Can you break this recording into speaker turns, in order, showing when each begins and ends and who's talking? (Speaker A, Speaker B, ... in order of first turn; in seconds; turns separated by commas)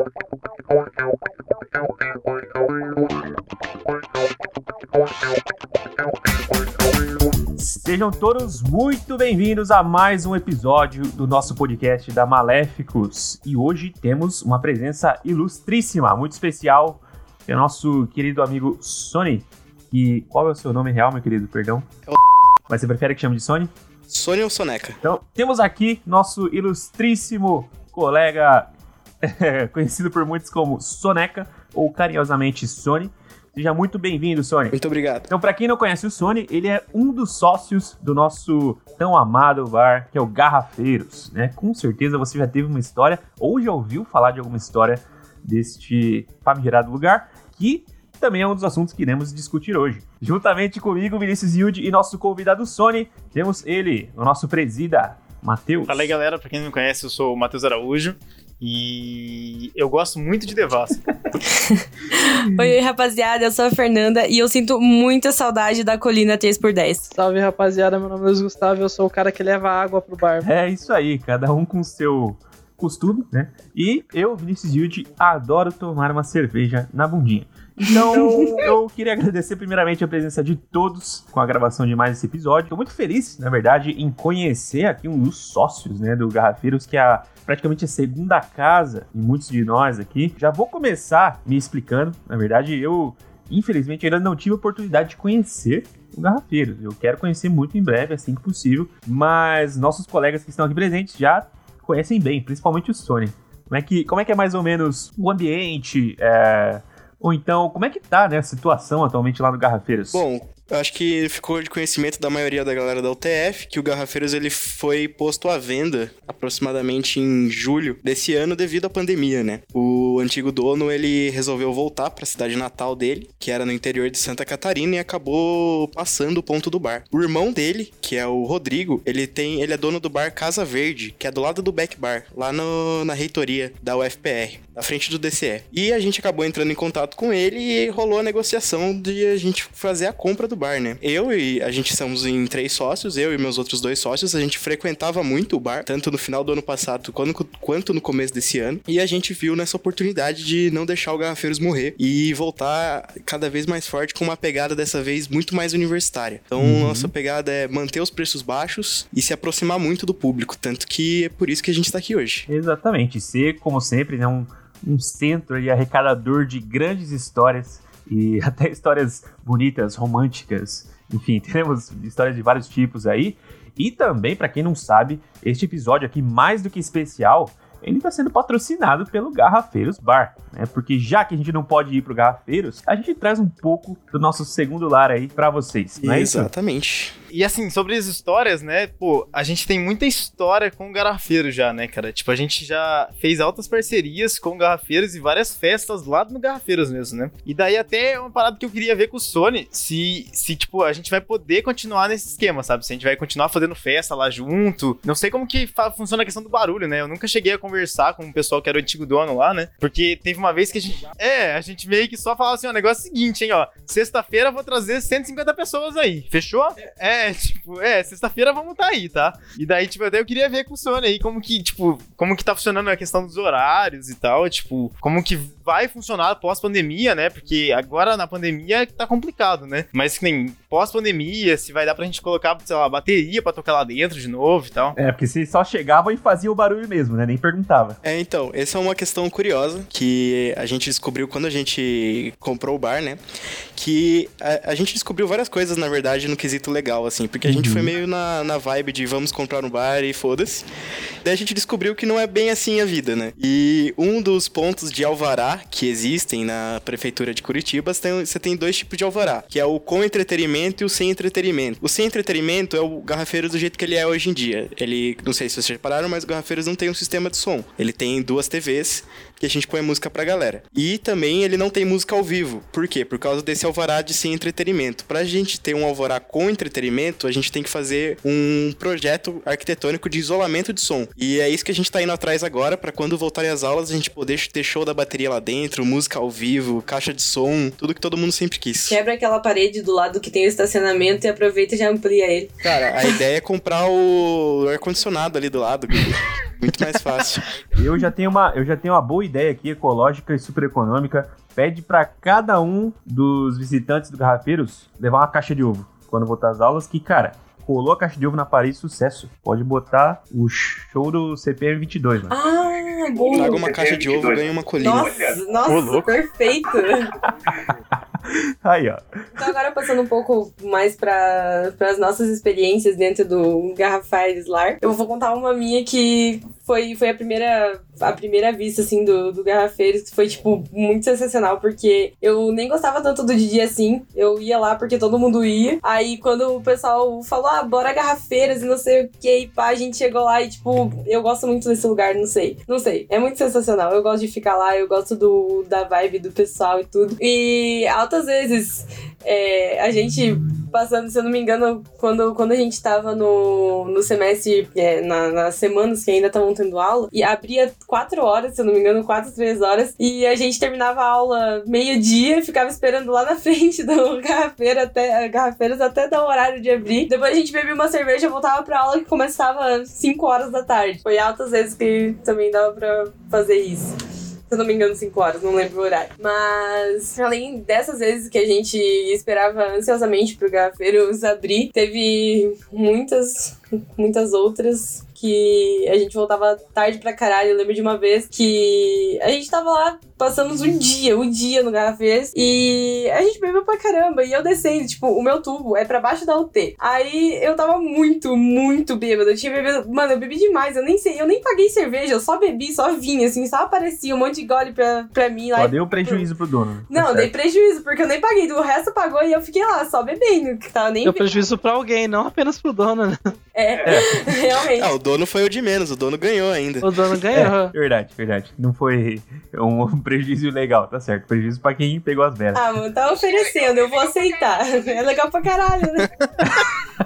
Speaker A: 7.5-21.9, Speaker A: 22.7-23.7, Speaker B: 24.1-25.0, Speaker A: 25.0-28.7, Speaker A: 29.2-34.8, Speaker B: 34.7-35.3, Speaker A: 35.3-56.1, Speaker C: 55.9-61.0, Speaker D: 61.5-67.1, Speaker E: 67.1-70.5, Speaker A: 70.4-110.2, Speaker B: 110.1-162.5, Speaker A: 156.6-157.1, Speaker A: 162.5-186.5, Speaker B: 186.0-187.1, Speaker C: 187.3-235.0, Speaker A: 234.9-238.0, Speaker B: 238.0-243.2, Speaker B: 243.7-250.7, Speaker A: 247.4-247.9, Speaker B: 251.2-289.0, Speaker D: 288.9-292.5, Speaker B: 292.6-297.6, Speaker A: 297.7-312.3, Speaker D: 312.3-313.8, Speaker B: 313.3-315.2, Speaker D: 314.8-317.1, Speaker C: 315.7-316.1, Speaker A: 317.4-319.5, Speaker D: 319.4-373.9, Speaker D: 374.5-406.3, Speaker A: 405.5-407.3, Speaker D: 406.9-411.3, Speaker E: 411.0-413.2, Speaker D: 413.5-414.9, Speaker B: 414.7-417.4, Speaker E: 416.8-417.7, Speaker A: 417.3-422.6, Speaker D: 422.5-426.1, Speaker A: 426.4-426.7